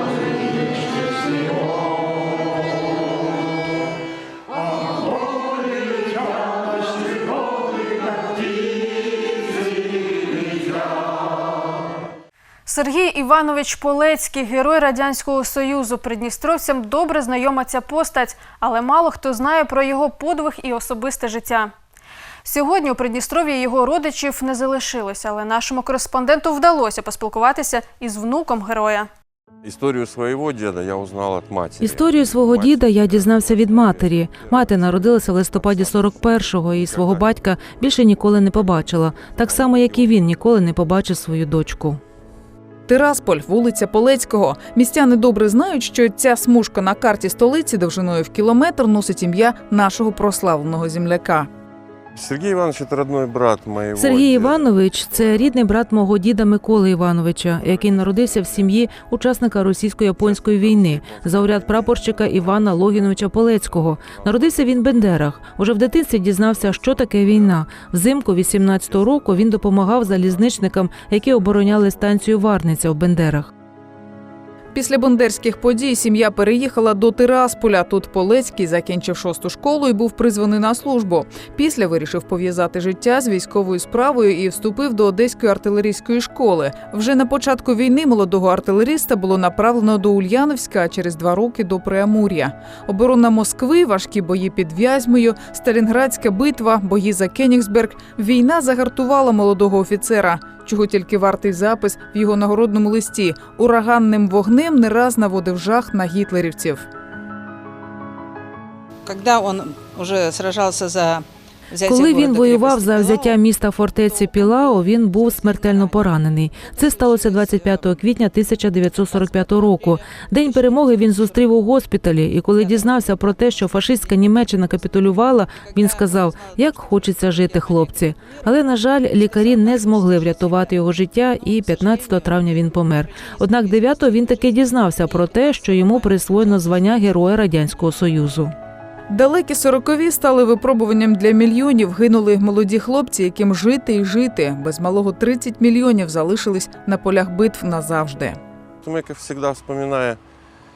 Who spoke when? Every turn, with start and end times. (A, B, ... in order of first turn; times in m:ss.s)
0:12.7-0:21.7 A
0:22.4-0:29.1 A
0:29.6-0:40.2 B
0:31.8-0:42.0 C
0:42.9-0:51.5 D
0:52.2-0:55.6 B
0:54.0-1:13.5 C
0:57.6-0:58.9 B
1:00.2-1:05.2 B
1:06.2-1:12.4 B
1:14.7-1:46.8 D
1:49.1-1:53.4 E
1:51.8-2:18.5 C
1:54.0-1:58.0 E
1:59.1-2:01.4 E
2:02.6-2:04.4 E
2:05.5-2:16.7 E
2:19.1-2:28.4 D
2:28.8-2:30.2 B